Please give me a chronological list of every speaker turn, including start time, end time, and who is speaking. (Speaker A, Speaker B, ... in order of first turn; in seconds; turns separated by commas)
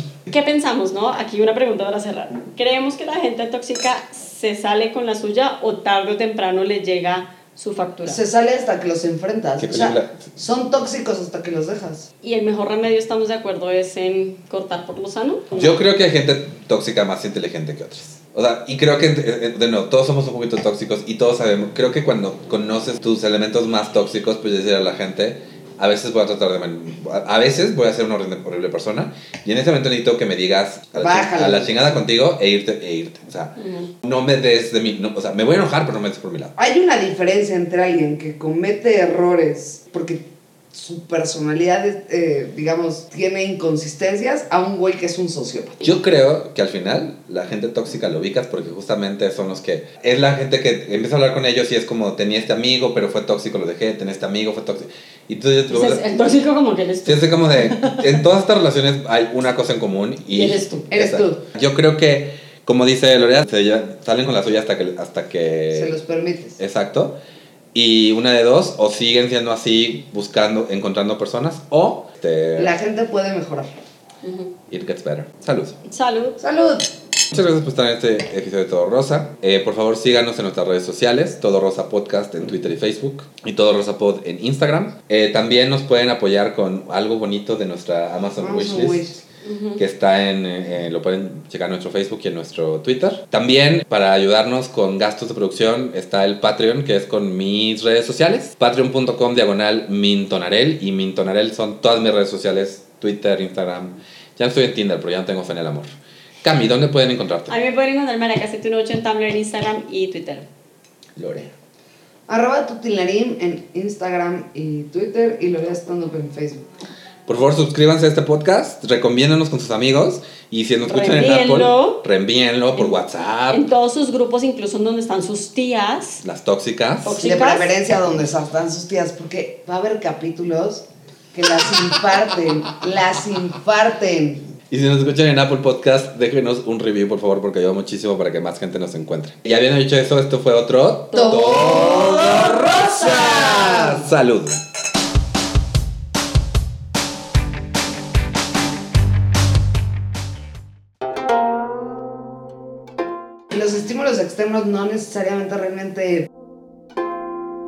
Speaker A: 0.3-8.2, Speaker B: 8.1-12.1, Speaker C: 9.6-10.2, Speaker A: 12.2-15.8, Speaker C: 15.5-36.5, Speaker B: 31.0-32.0, Speaker A: 33.6-33.9, Speaker B: 36.6-40.2, Speaker B: 40.7-46.0, Speaker C: 45.8-56.2, Speaker A: 55.7-58.2, Speaker C: 57.0-66.0, Speaker A: 60.3-60.9, Speaker B: 60.9-61.5, Speaker B: 65.7-66.6, Speaker C: 66.6-67.2, Speaker C: 67.7-72.8, Speaker B: 72.6-73.8, Speaker A: 74.2-74.5, Speaker C: 74.7-75.8, Speaker A: 75.9-76.4, Speaker B: 76.4-76.9, Speaker C: 77.3-89.0, Speaker B: 88.4-89.2, Speaker A: 89.4-89.8, Speaker C: 89.8-105.9, Speaker C: 106.4-107.5, Speaker A: 107.5-110.5, Speaker C: 111.2-111.5, Speaker B: 112.3-116.7, Speaker C: 117.3-123.6, Speaker A: 120.9-122.0, Speaker A: 123.5-126.2, Speaker C: 126.2-127.2, Speaker A: 127.0-127.7, Speaker B: 127.2-134.5, Speaker C: 134.7-144.6, Speaker A: 141.1-142.5, Speaker B: 141.1-144.0, Speaker B: 153.5-156.3